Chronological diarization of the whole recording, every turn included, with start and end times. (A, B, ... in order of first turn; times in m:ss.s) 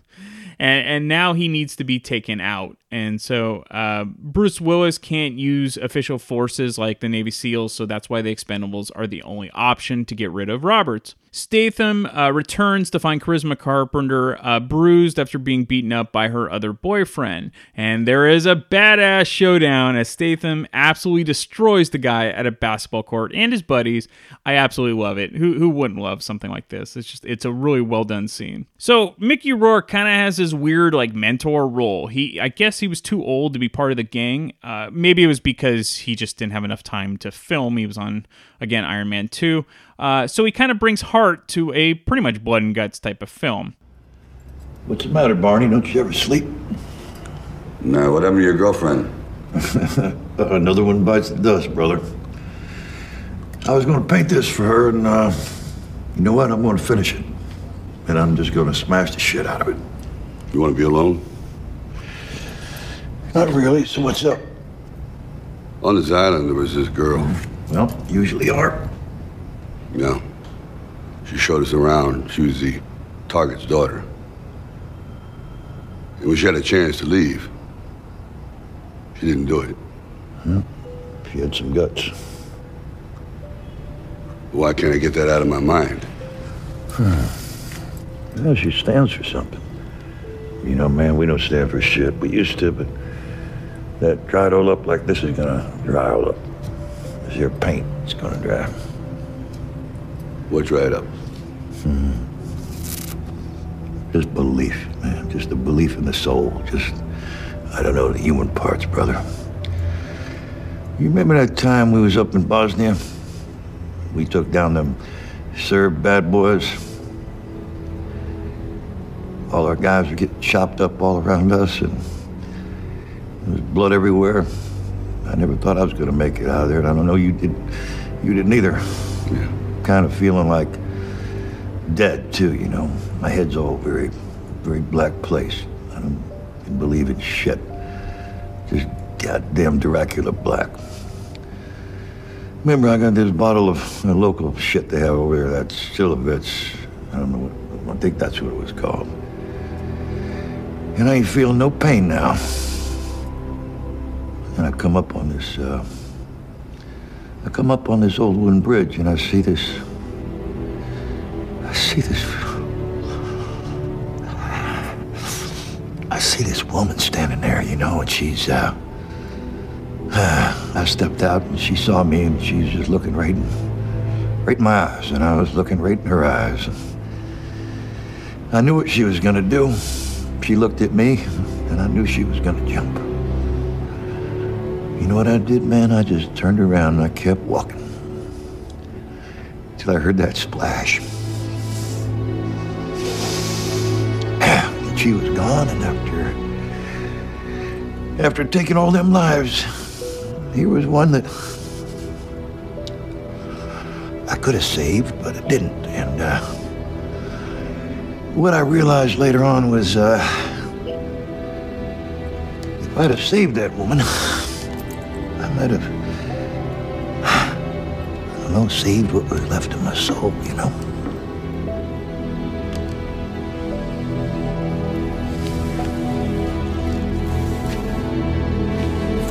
0:00.6-0:43.7 A
0:44.8-0:46.6 B
0:47.8-0:49.1 C
0:49.5-0:52.1 B
0:53.6-0:57.3 B
0:58.0-0:59.8 B
1:00.5-1:01.2 C
1:03.3-1:04.4 B
1:05.8-1:07.3 C
1:07.1-1:08.9 B
1:09.9-1:10.2 C
1:11.2-1:14.0 C
1:16.2-1:17.5 C
1:19.2-1:19.8 C
1:21.2-1:22.3 B
1:24.5-1:26.1 C
1:26.9-1:27.6 B
1:28.3-1:29.6 B
1:30.6-1:32.9 B
1:34.0-1:36.4 B
1:37.2-1:38.7 B
1:40.5-1:41.1 C
1:41.8-1:42.3 B
1:44.1-1:47.0 B
1:47.7-1:49.2 B
1:51.0-1:53.1 B
1:54.1-1:55.0 B
1:55.5-1:56.9 B
1:59.5-2:02.1 B
2:03.4-2:04.5 B
2:05.2-2:09.2 B
2:09.8-2:10.8 B
2:11.9-2:17.7 B
2:18.7-2:20.8 B
2:22.6-2:29.1 B
2:30.9-2:33.0 B
2:34.5-2:35.9 B
2:37.4-2:39.8 B
2:41.6-2:42.6 B
2:44.5-2:44.9 B
2:46.1-2:48.8 B
2:50.1-2:53.6 B
2:54.4-2:56.9 B
2:58.5-3:03.1 B
3:05.0-3:07.9 B
3:09.8-3:11.0 B
3:14.4-3:16.4 B
3:18.2-3:21.7 B
3:24.3-3:26.6 B
3:28.3-3:30.7 B
3:32.8-3:34.7 B
3:35.4-3:36.2 B
3:37.2-3:37.6 B
3:38.4-3:40.8 B